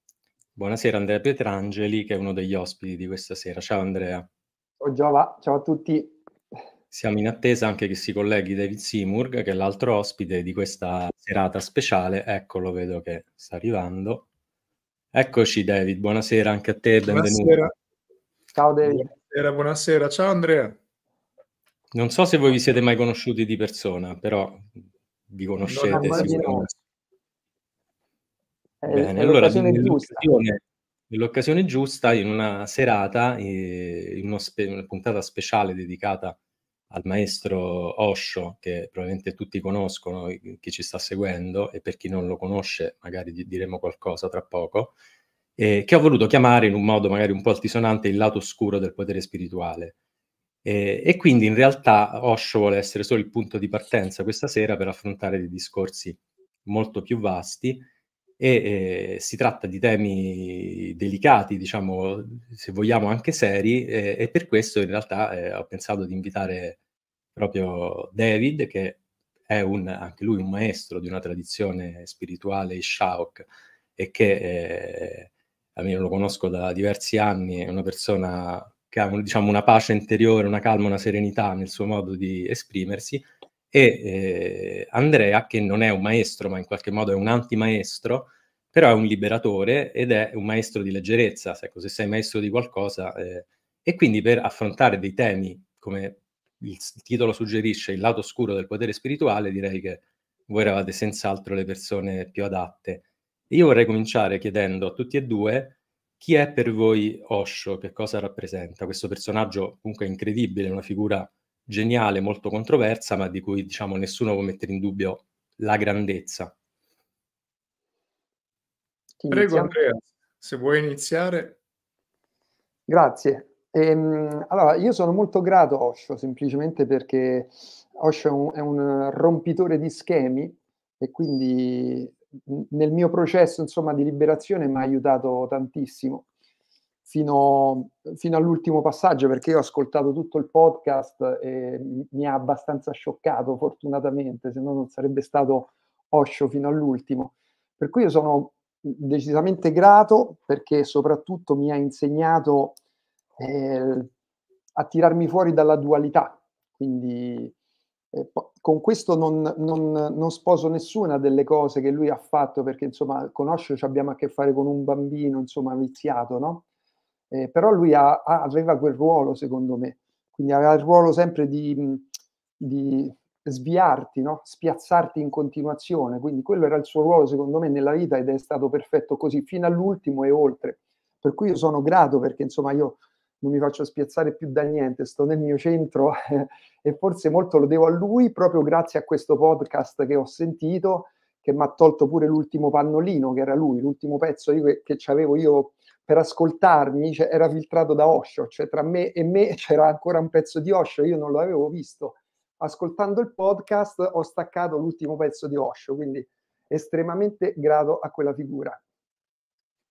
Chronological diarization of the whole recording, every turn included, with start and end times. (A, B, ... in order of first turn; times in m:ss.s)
0:00.6-0:04.3 A
0:04.8-0:06.2 B
0:06.9-0:14.3 A
0:15.1-0:17.6 A
0:17.1-0:17.7 C
0:18.6-0:19.1 B
0:18.8-0:20.8 C
0:21.9-0:26.7 A
0:25.6-0:26.7 C
0:25.9-0:26.6 B
0:28.8-0:30.3 B
0:28.9-0:36.4 A
0:36.9-0:44.9 A
0:45.6-0:50.0 A
0:50.6-0:57.9 A
0:58.4-1:06.8 A
1:07.3-1:56.5 A
1:59.2-1:59.7 B
1:59.3-2:01.6 C
2:02.9-2:16.2 B
2:17.1-2:32.8 B
2:33.4-2:34.1 B
2:34.8-2:37.5 B
2:38.1-2:46.6 B
2:47.3-2:52.1 B
2:52.6-3:28.8 B